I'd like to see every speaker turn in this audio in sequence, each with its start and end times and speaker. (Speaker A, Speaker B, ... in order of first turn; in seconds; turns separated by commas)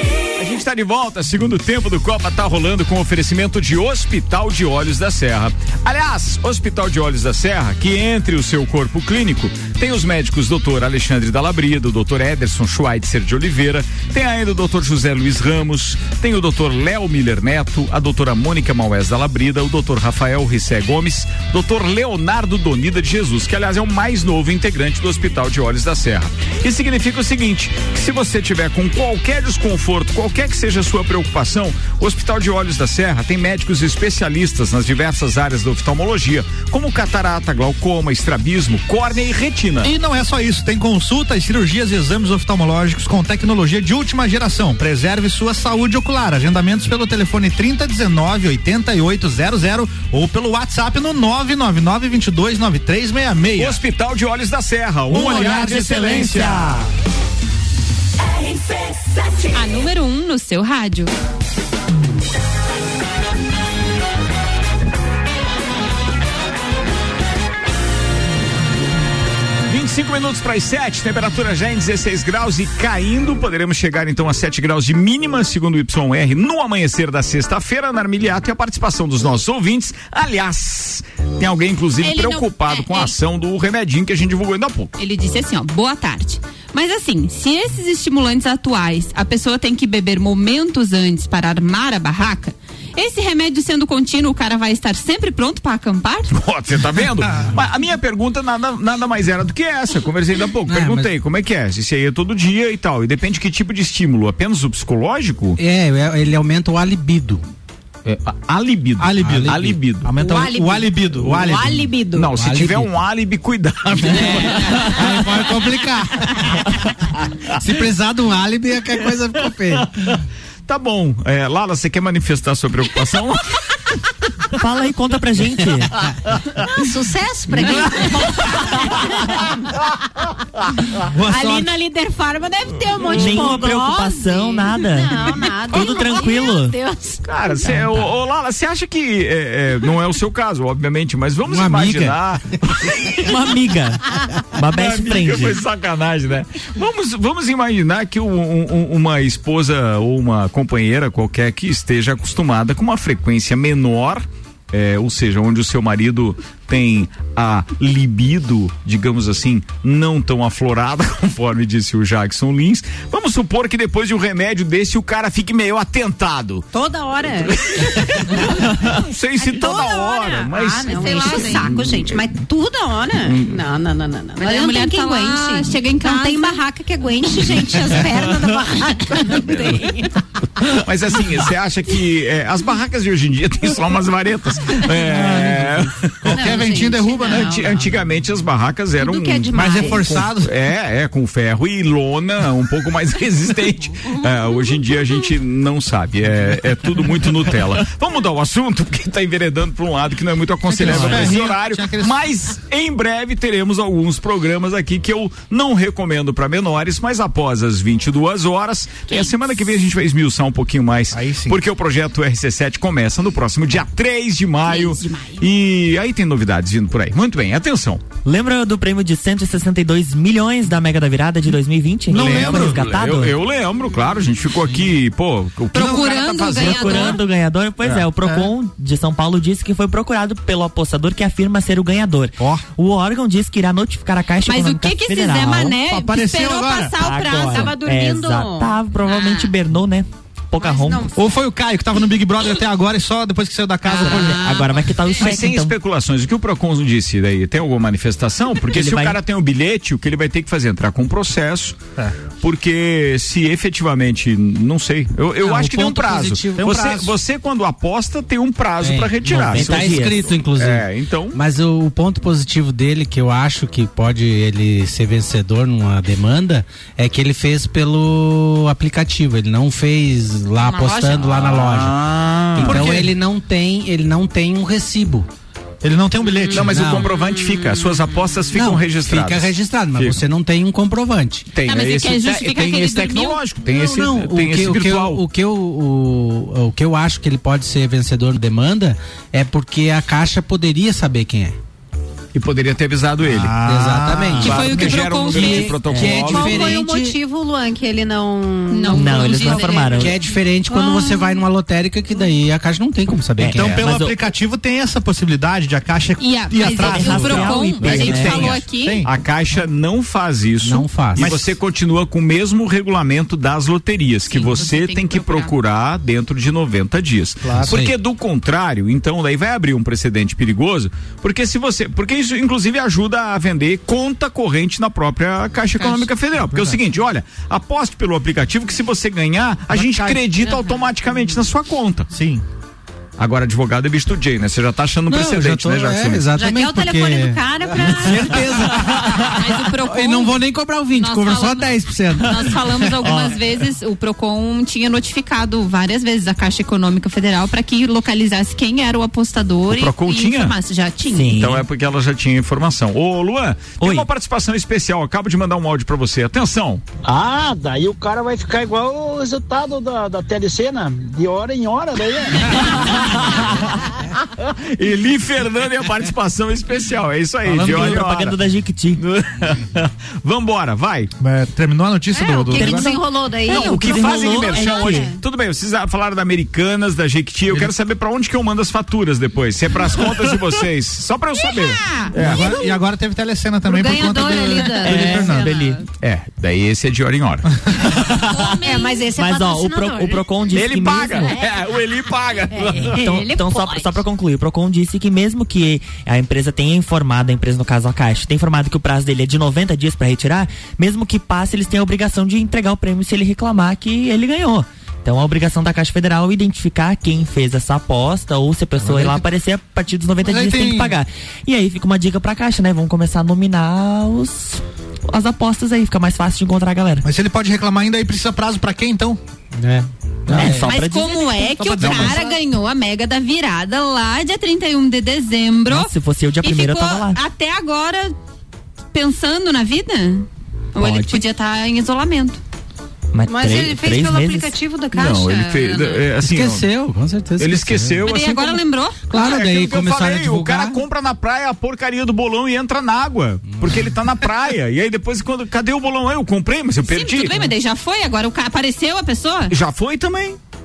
Speaker A: 0.4-39.9, Speaker B: 39.8-53.8, Speaker A: 53.6-56.7, Speaker C: 55.1-56.9, Speaker D: 59.5-61.1, Speaker A: 69.7-85.0, Speaker D: 82.0-83.1, Speaker D: 85.0-96.3, Speaker A: 96.3-105.6, Speaker E: 100.7-101.1, Speaker E: 105.6-107.4, Speaker A: 108.0-110.1, Speaker B: 109.0-111.9, Speaker E: 109.2-109.6, Speaker F: 110.1-112.3, Speaker A: 112.1-115.1, Speaker E: 112.3-112.9, Speaker E: 114.0-115.6, Speaker B: 114.9-116.4, Speaker E: 117.6-119.9, Speaker A: 120.7-123.5, Speaker C: 124.6-126.0, Speaker F: 126.6-129.6, Speaker B: 131.1-131.7, Speaker F: 131.2-137.3, Speaker C: 133.1-136.8, Speaker A: 137.2-143.3, Speaker E: 141.5-142.2, Speaker C: 143.2-145.6, Speaker A: 144.7-166.7, Speaker F: 166.7-167.8, Speaker A: 167.4-172.2, Speaker F: 169.4-180.2, Speaker D: 170.9-171.7, Speaker A: 173.2-173.5, Speaker D: 174.4-176.6, Speaker A: 180.7-186.6, Speaker B: 185.0-187.7, Speaker F: 186.3-187.9, Speaker A: 187.3-218.0, Speaker F: 189.0-190.3, Speaker B: 189.5-190.5, Speaker C: 200.7-201.4, Speaker B: 200.7-202.2, Speaker D: 209.1-209.3, Speaker B: 211.1-211.6, Speaker D: 214.7-215.5, Speaker C: 218.2-223.4, Speaker B: 222.1-222.8, Speaker A: 222.1-227.2, Speaker D: 225.7-227.2, Speaker C: 226.6-235.8, Speaker A: 227.8-228.1, Speaker B: 228.2-228.5, Speaker B: 232.4-232.7, Speaker D: 234.5-237.8, Speaker B: 235.9-237.0, Speaker C: 236.9-241.1, Speaker F: 237.3-239.5, Speaker F: 240.6-241.4, Speaker B: 241.1-244.4, Speaker F: 243.9-245.1, Speaker C: 243.9-245.7, Speaker A: 245.2-251.8, Speaker C: 248.7-249.2, Speaker A: 252.4-261.4, Speaker E: 255.4-256.8, Speaker B: 256.6-257.1, Speaker E: 258.8-275.3, Speaker C: 259.3-260.3, Speaker D: 270.6-271.4, Speaker A: 271.3-272.8, Speaker B: 272.6-273.1, Speaker B: 275.8-276.9, Speaker A: 276.5-280.2, Speaker E: 276.6-277.1, Speaker F: 277.1-278.6, Speaker E: 278.5-281.5, Speaker A: 281.5-285.2, Speaker D: 281.6-283.4, Speaker E: 283.7-291.6, Speaker A: 292.3-293.6, Speaker B: 293.2-294.9, Speaker E: 293.6-297.2, Speaker A: 294.4-296.8, Speaker D: 294.4-295.8, Speaker F: 296.1-299.9, Speaker D: 298.7-300.1, Speaker C: 298.9-300.3, Speaker E: 299.9-303.8, Speaker F: 300.7-301.4, Speaker C: 303.4-304.2, Speaker B: 303.5-309.1, Speaker D: 306.2-309.0, Speaker C: 306.6-308.6, Speaker A: 307.8-332.1, Speaker E: 310.6-311.3, Speaker B: 311.2-311.5, Speaker D: 314.3-315.5, Speaker B: 317.4-317.8, Speaker E: 317.7-317.9, Speaker D: 325.8-326.1, Speaker B: 326.5-326.8, Speaker B: 329.7-330.3, Speaker B: 332.1-332.4, Speaker A: 333.2-336.3, Speaker E: 335.1-343.0, Speaker F: 336.3-338.7, Speaker D: 339.3-340.4, Speaker D: 341.0-351.4, Speaker C: 343.1-343.3, Speaker A: 349.7-350.6, Speaker C: 351.1-351.6, Speaker A: 351.3-356.8, Speaker C: 353.8-354.1, Speaker G: 357.1-363.2, Speaker A: 362.6-363.6, Speaker A: 364.8-368.4, Speaker B: 367.4-368.0, Speaker C: 367.6-369.0, Speaker A: 369.0-371.1, Speaker B: 371.2-372.9, Speaker F: 372.2-375.2, Speaker C: 372.5-375.1, Speaker A: 373.5-382.5, Speaker D: 381.4-382.1, Speaker B: 382.1-385.5, Speaker F: 382.2-382.7, Speaker F: 383.6-385.7, Speaker C: 384.7-385.8, Speaker A: 386.0-387.5, Speaker C: 388.0-391.4, Speaker D: 388.3-389.0, Speaker F: 388.6-390.3, Speaker A: 390.5-393.0, Speaker F: 391.1-391.9, Speaker F: 392.5-394.0, Speaker C: 392.8-417.1, Speaker B: 408.8-409.3, Speaker B: 410.2-411.0, Speaker B: 417.0-419.2, Speaker E: 419.6-420.8, Speaker B: 420.3-420.6, Speaker C: 420.3-421.5, Speaker D: 420.6-428.1, Speaker B: 421.6-422.4, Speaker A: 421.8-422.2, Speaker C: 425.7-427.2, Speaker D: 428.9-432.4, Speaker C: 430.8-431.2, Speaker C: 433.1-434.6, Speaker F: 433.3-436.1, Speaker A: 434.9-436.7, Speaker E: 436.2-438.1, Speaker A: 437.4-447.4, Speaker D: 438.0-439.0, Speaker E: 439.1-440.8, Speaker D: 446.9-449.5, Speaker A: 449.5-450.4